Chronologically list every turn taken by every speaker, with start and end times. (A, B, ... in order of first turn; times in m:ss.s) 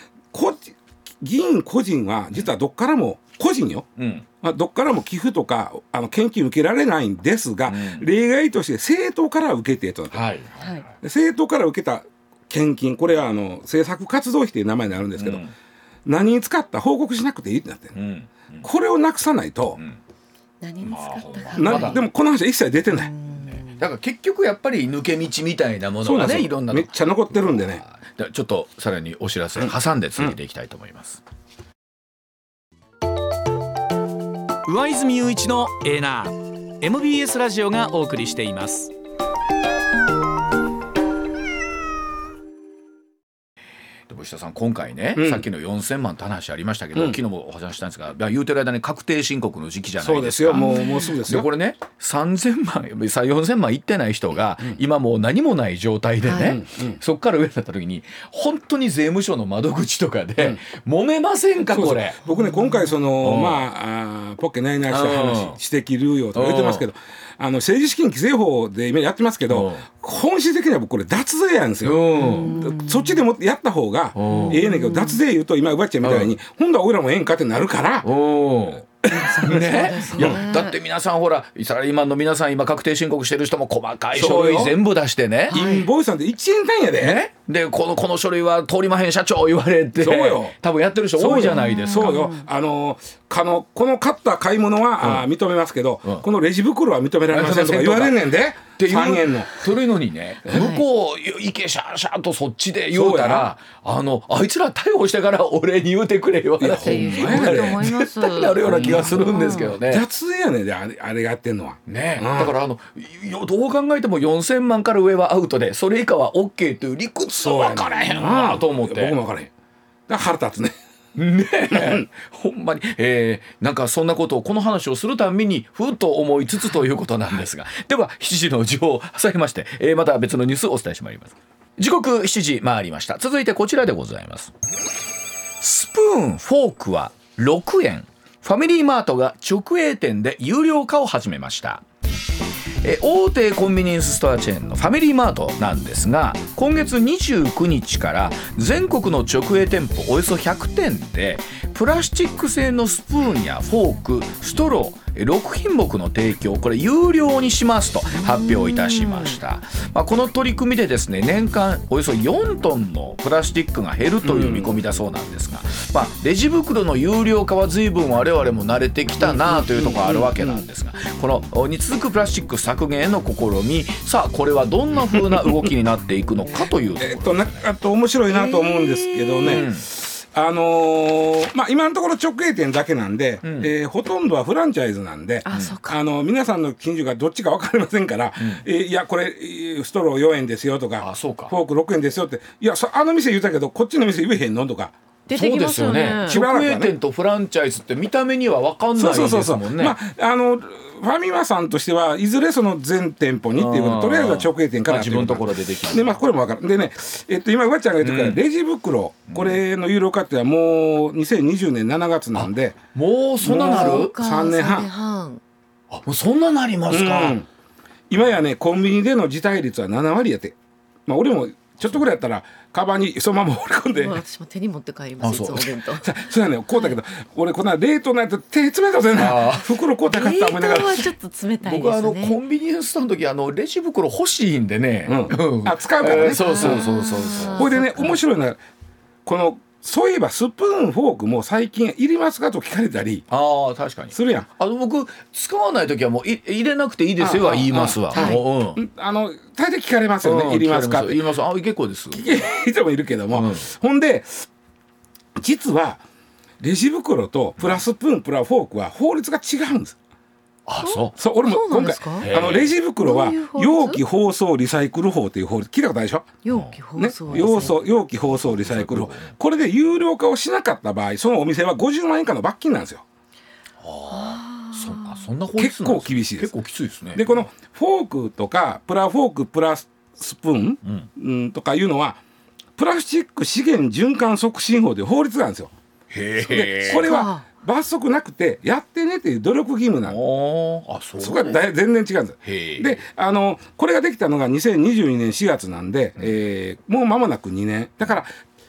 0:00.3-0:03.9 A
0:04.0-0:04.2 B
0:04.4-0:10.3 A
0:07.7-0:08.1 B
0:10.1-0:10.9 B
0:11.0-0:15.4 A
0:15.2-0:15.5 B
0:16.0-0:18.0 A
0:17.9-0:18.7 B
0:18.6-0:19.8 A
0:20.6-0:22.0 C
0:20.8-0:22.0 B
0:21.5-0:23.1 A
0:22.9-0:23.8 C
0:23.3-0:31.2 B
0:26.0-0:27.8 A
0:29.6-0:30.3 A
0:34.7-0:38.9 D
0:44.1-0:50.7 B
0:45.2-0:45.4 A
0:50.0-0:51.5 A
0:50.5-0:51.2 C
0:51.3-1:02.2 B
0:56.2-0:56.6 C
0:56.4-0:57.0 A
1:01.7-1:18.1 A
1:02.3-1:02.9 C
1:03.2-1:03.6 B
1:04.9-1:05.6 B
1:06.3-1:06.9 B
1:09.5-1:09.8 B
1:11.8-1:12.6 B
1:12.2-1:13.1 C
1:14.2-1:14.6 B
1:14.3-1:15.2 C
1:16.0-1:16.4 B
1:18.0-1:18.8 B
1:19.0-1:20.4 A
1:19.1-1:20.8 C
1:19.4-1:25.6 B
1:24.1-1:24.8 A
1:25.5-1:25.9 C
1:25.5-1:27.2 A
1:27.0-1:32.1 B
1:30.0-1:30.6 A
1:31.2-1:39.7 A
1:31.5-1:32.4 C
1:35.0-1:35.3 B
1:37.3-1:38.2 B
1:38.8-1:50.0 B
1:40.5-1:40.8 C
1:42.9-1:43.5 A
1:46.6-1:47.8 A
1:46.7-1:49.7 C
1:48.6-1:52.6 A
1:51.9-1:59.2 B
1:57.3-1:59.5 A
2:00.1-2:00.7 A
2:01.2-2:14.5 B
2:01.7-2:02.0 A
2:15.6-2:21.8 B
2:22.8-2:57.6 B
2:38.2-2:39.3 C
2:44.2-2:44.8 A
2:49.5-2:50.6 A
2:57.0-3:14.9 A
2:58.3-2:59.7 C
2:59.4-2:59.9 B
3:03.4-3:03.7 B
3:05.4-3:06.0 C
3:05.5-3:05.8 B
3:08.4-3:08.6 B
3:11.0-3:11.5 B
3:15.3-3:16.4 C
3:15.3-3:20.0 B
3:16.3-3:16.9 A
3:19.0-3:32.8 A
3:23.6-3:26.1 B
3:28.0-3:28.4 B
3:29.3-3:29.6 B
3:32.3-3:34.1 B
3:33.4-3:34.9 A
3:33.4-3:35.4 C
3:35.9-3:37.4 B
3:36.9-3:37.5 A
3:38.1-3:40.6 A
3:41.1-3:44.2 A
3:44.0-3:46.1 C
3:45.2-3:45.8 B
3:46.0-3:51.1 A
3:49.1-3:49.7 B
3:50.1-3:52.4 C
3:51.6-3:58.1 B
3:55.1-3:58.6 A
3:56.1-3:58.2 C
3:59.3-4:03.3 A
4:03.3-4:08.8 B
4:04.1-4:04.5 A
4:07.2-4:11.2 A
4:08.1-4:08.4 C
4:10.2-4:12.2 B
4:12.1-4:14.5 A
4:13.3-4:13.7 B
4:15.4-4:16.0 A
4:16.6-4:20.0 A
4:20.7-4:21.1 B
4:20.8-4:22.3 C
4:21.2-4:26.3 A
4:22.2-4:22.7 B
4:23.0-4:24.0 C
4:26.4-4:27.8 C
4:26.5-4:27.7 B
4:27.0-4:33.0 A
4:28.6-4:29.3 B
4:33.8-4:37.5 B
4:34.1-4:35.2 C
4:35.6-4:36.5 A
4:37.2-4:42.2 A
4:40.8-4:41.1 B
4:42.8-4:45.7 A
4:46.1-4:47.1 B
4:46.5-4:50.2 A
4:46.9-4:47.4 C
4:50.1-4:51.6 B
4:51.2-4:58.3 A
4:52.4-4:53.0 B